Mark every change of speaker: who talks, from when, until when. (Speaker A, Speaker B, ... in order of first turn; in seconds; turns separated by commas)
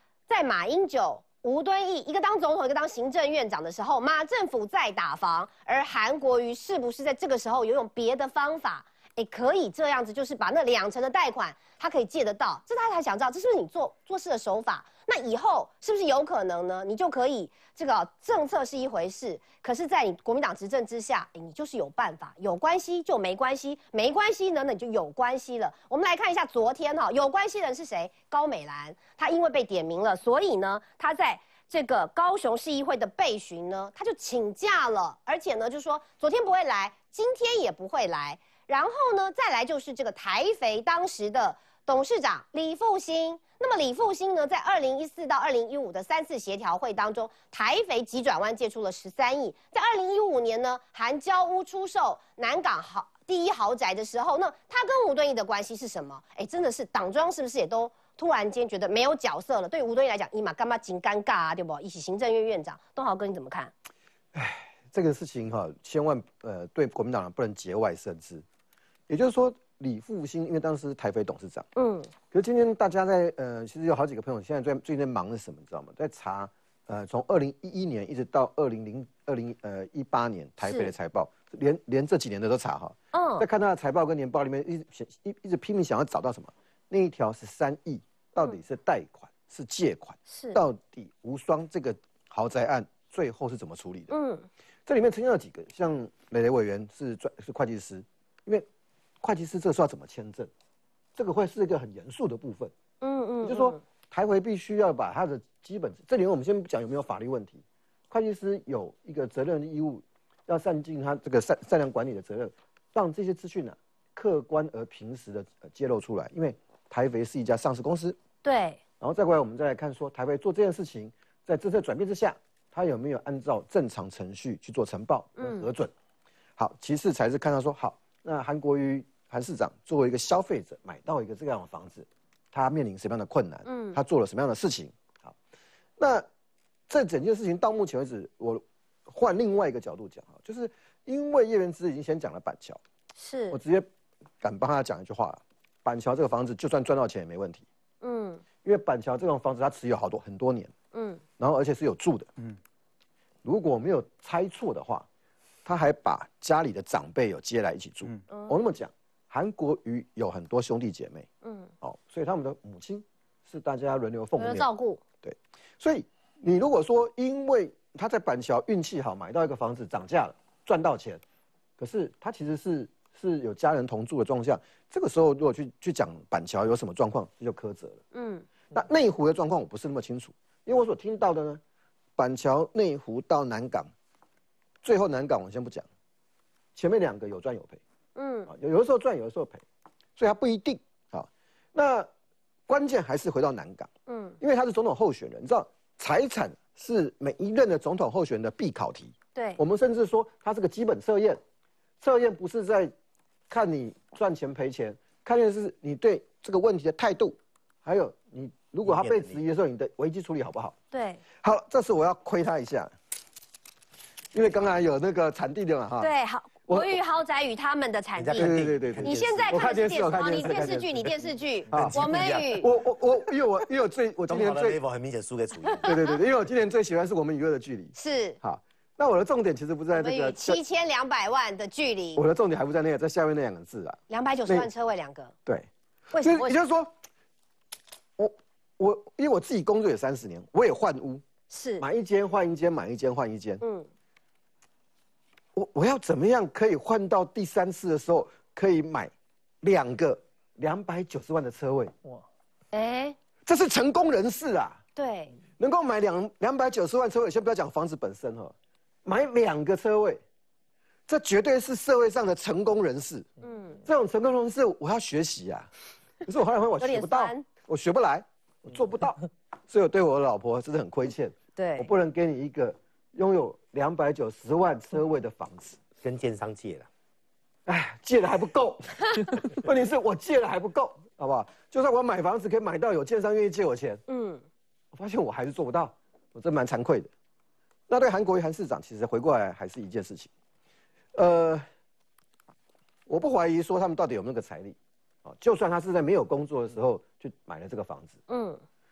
Speaker A: 0.3-63.7, Speaker B: 64.3-68.4, Speaker B: 69.1-71.7, Speaker A: 71.8-72.1, Speaker B: 72.3-94.1, Speaker A: 80.6-80.9, Speaker A: 83.1-83.5, Speaker A: 90.3-90.6, Speaker A: 94.1-94.5, Speaker B: 94.8-98.7, Speaker B: 99.2-100.5, Speaker B: 101.2-102.7, Speaker A: 103.0-103.8, Speaker B: 103.4-118.2, Speaker A: 118.4-118.8, Speaker B: 119.0-125.9, Speaker A: 125.4-125.7, Speaker B: 126.6-135.3, Speaker A: 133.7-134.0, Speaker B: 136.0-136.3, Speaker B: 136.9-142.8, Speaker A: 143.2-143.6, Speaker B: 143.5-143.9, Speaker B: 144.4-147.6, Speaker A: 148.0-148.4, Speaker B: 148.6-150.7, Speaker A: 150.9-151.2, Speaker B: 151.4-152.3, Speaker B: 153.4-155.1, Speaker B: 155.6-161.3, Speaker A: 158.3-158.6, Speaker A: 161.4-161.7, Speaker B: 161.8-164.7, Speaker A: 164.4-165.0, Speaker B: 165.2-171.2, Speaker B: 171.8-178.0, Speaker A: 178.1-178.4, Speaker B: 178.7-181.6, Speaker B: 182.2-183.9, Speaker B: 184.8-185.9, Speaker B: 186.7-187.8, Speaker A: 188.2-188.5, Speaker B: 188.5-189.6, Speaker B: 190.2-192.1, Speaker B: 192.7-201.4, Speaker A: 194.1-194.4, Speaker A: 199.3-199.6, Speaker B: 202.0-202.9, Speaker B: 203.5-210.7, Speaker C: 208.8-209.4, Speaker A: 210.9-211.2, Speaker B: 211.4-212.9, Speaker B: 214.3-216.1, Speaker A: 216.0-222.7, Speaker B: 216.7-216.9, Speaker C: 218.2-221.1, Speaker B: 218.3-220.8, Speaker C: 221.7-222.6, Speaker B: 221.7-222.0, Speaker B: 222.6-224.8, Speaker C: 224.3-225.9, Speaker A: 225.7-226.2, Speaker B: 225.8-230.6, Speaker A: 227.9-228.4, Speaker A: 229.9-232.2, Speaker B: 232.2-234.7, Speaker A: 234.1-235.3, Speaker B: 235.4-236.9, Speaker A: 236.1-236.5, Speaker B: 238.2-241.2, Speaker A: 241.5-241.8, Speaker B: 241.8-243.6, Speaker A: 243.6-243.9, Speaker B: 245.5-251.9, Speaker A: 252.7-253.2, Speaker B: 253.4-254.8, Speaker A: 255.0-255.3, Speaker B: 255.6-258.5, Speaker B: 259.0-260.2, Speaker B: 261.1-263.3, Speaker A: 263.4-263.8, Speaker B: 263.8-265.7, Speaker B: 266.2-275.8, Speaker A: 266.8-267.4, Speaker A: 271.6-271.9, Speaker C: 276.0-276.9, Speaker B: 277.6-284.0, Speaker A: 284.1-284.4, Speaker B: 284.9-287.1, Speaker B: 287.9-290.3, Speaker B: 291.1-291.6, Speaker B: 293.1-298.2, Speaker A: 298.3-298.6